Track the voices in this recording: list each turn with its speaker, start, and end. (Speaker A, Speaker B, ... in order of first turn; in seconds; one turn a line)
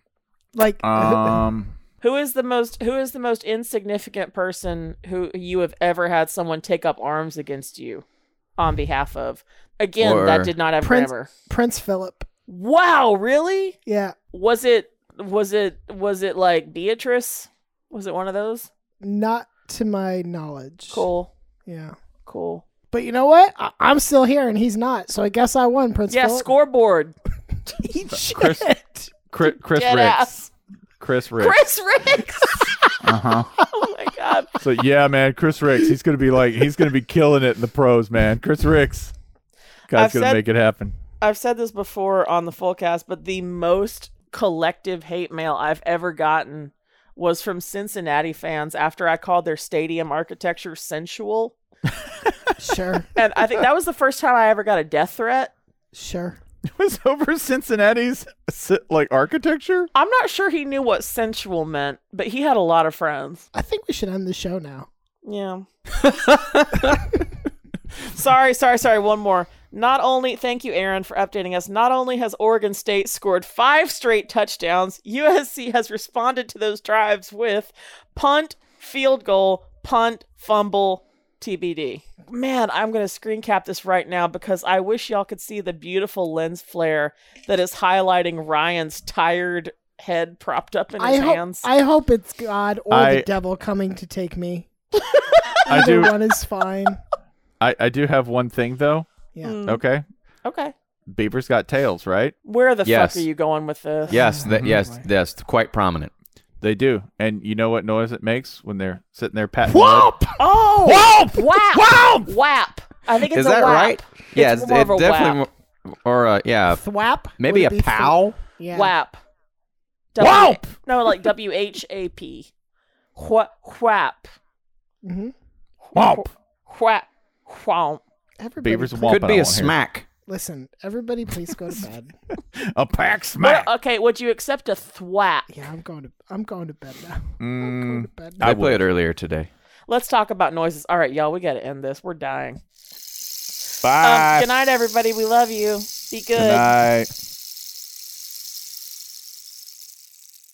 Speaker A: 0.6-1.4
Speaker B: 0.8-1.7
Speaker C: 2.0-8.1
Speaker C: 8.6-11.3
Speaker D: 10.0-10.5
Speaker A: 10.8-12.3
Speaker C: 12.5-13.8
Speaker A: 13.8-14.1
Speaker C: 14.3-18.7
Speaker A: 19.0-21.1
Speaker C: 20.9-21.3
Speaker A: 21.6-21.9
Speaker C: 22.3-22.6
Speaker A: 22.9-26.5
Speaker C: 26.1-27.1
Speaker A: 27.7-29.1
Speaker B: 28.1-28.6
Speaker B: 29.3-30.3
Speaker C: 29.4-30.5
Speaker B: 31.0-31.6
Speaker C: 31.4-32.8
Speaker B: 33.0-33.5
Speaker C: 33.7-34.5
Speaker B: 34.6-39.1
Speaker B: 39.9-40.9
Speaker C: 39.9-40.4
Speaker C: 41.2-51.5
Speaker B: 51.9-52.5
Speaker A: 52.6-53.1
Speaker C: 53.1-55.5
Speaker A: 55.9-56.4
Speaker B: 56.7-59.9
Speaker C: 59.9-63.5
Speaker A: 63.5-64.9
Speaker C: 65.2-65.7
Speaker C: 68.0-91.7
Speaker A: 91.0-94.7
Speaker B: 92.9-93.3
Speaker C: 95.0-96.0
Speaker A: 95.7-97.0
Speaker B: 95.7-96.1
Speaker B: 97.6-99.1
Speaker C: 99.4-99.8
Speaker B: 99.6-100.0
Speaker C: 100.4-100.7
Speaker B: 101.1-102.3
Speaker C: 102.4-104.1
Speaker D: 102.8-103.3
Speaker A: 104.1-105.0
Speaker D: 104.1-106.1
Speaker B: 104.5-104.8
Speaker B: 106.6-110.2
Speaker A: 109.6-110.3
Speaker C: 110.4-115.4
Speaker B: 110.8-112.3
Speaker D: 113.3-116.8
Speaker A: 116.7-118.9
Speaker D: 117.4-118.2
Speaker C: 118.7-119.2
Speaker C: 120.1-122.5
Speaker B: 120.2-120.7
Speaker C: 123.2-124.3
Speaker A: 125.0-125.3
Speaker C: 125.8-128.0
Speaker B: 125.9-126.3
Speaker A: 128.4-129.2
Speaker B: 128.6-129.7
Speaker D: 129.1-130.1
Speaker A: 130.3-132.1
Speaker B: 132.6-133.7
Speaker C: 133.4-135.5
Speaker A: 135.5-138.5
Speaker B: 137.4-138.8
Speaker D: 138.4-139.5
Speaker C: 139.9-142.6
Speaker B: 143.8-144.5
Speaker C: 144.0-146.7
Speaker B: 146.3-147.1